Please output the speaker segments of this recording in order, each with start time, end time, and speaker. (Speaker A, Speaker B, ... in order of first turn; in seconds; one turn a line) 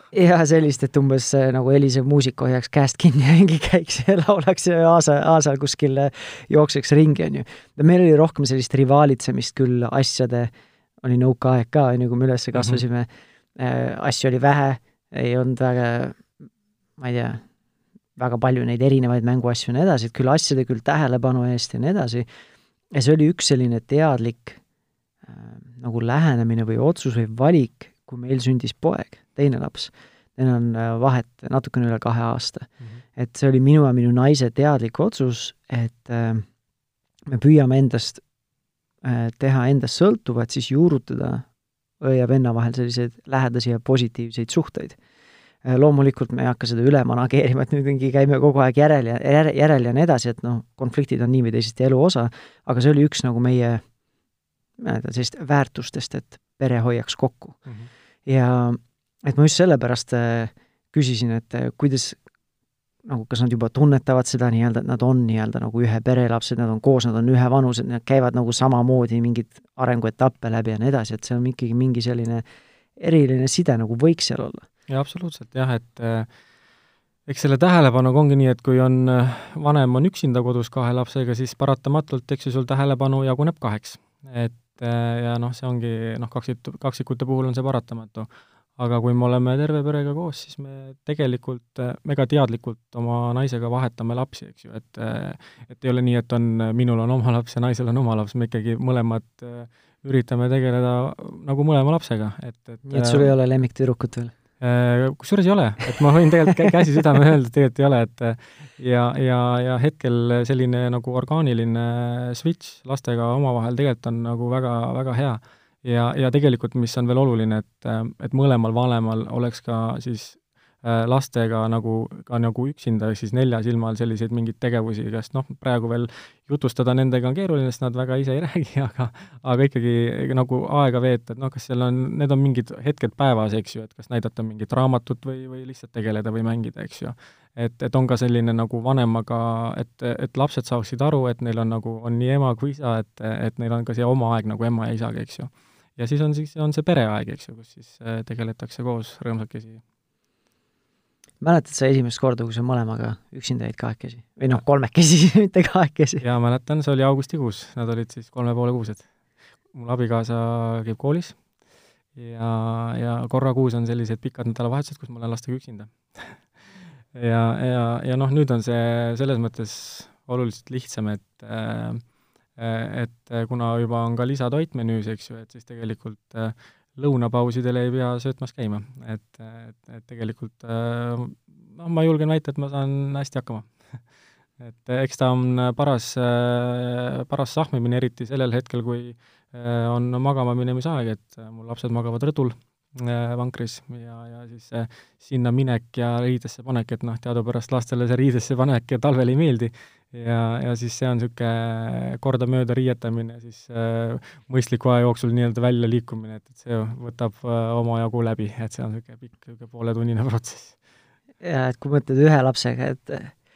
Speaker A: 0.1-10.5
Speaker A: 11.0-16.4
Speaker B: 12.6-12.8
Speaker A: 17.0-17.4
Speaker A: 18.2-22.3
Speaker A: 22.9-24.6
Speaker A: 25.3-36.5
Speaker A: 37.3-38.2
Speaker A: 39.0-41.5
Speaker A: 42.0-45.0
Speaker A: 45.6-53.8
Speaker A: 54.8-57.6
Speaker A: 58.3-62.2
Speaker A: 63.1-72.4
Speaker A: 73.0-74.7
Speaker B: 74.9-76.3
Speaker B: 77.3-103.3
Speaker A: 102.9-104.3
Speaker B: 104.6-149.8
Speaker A: 151.4-156.2
Speaker B: 156.2-159.1
Speaker B: 159.7-161.4
Speaker B: 162.2-166.4
Speaker B: 167.1-172.0
Speaker B: 172.6-183.7
Speaker B: 184.6-210.8
Speaker A: 211.4-213.3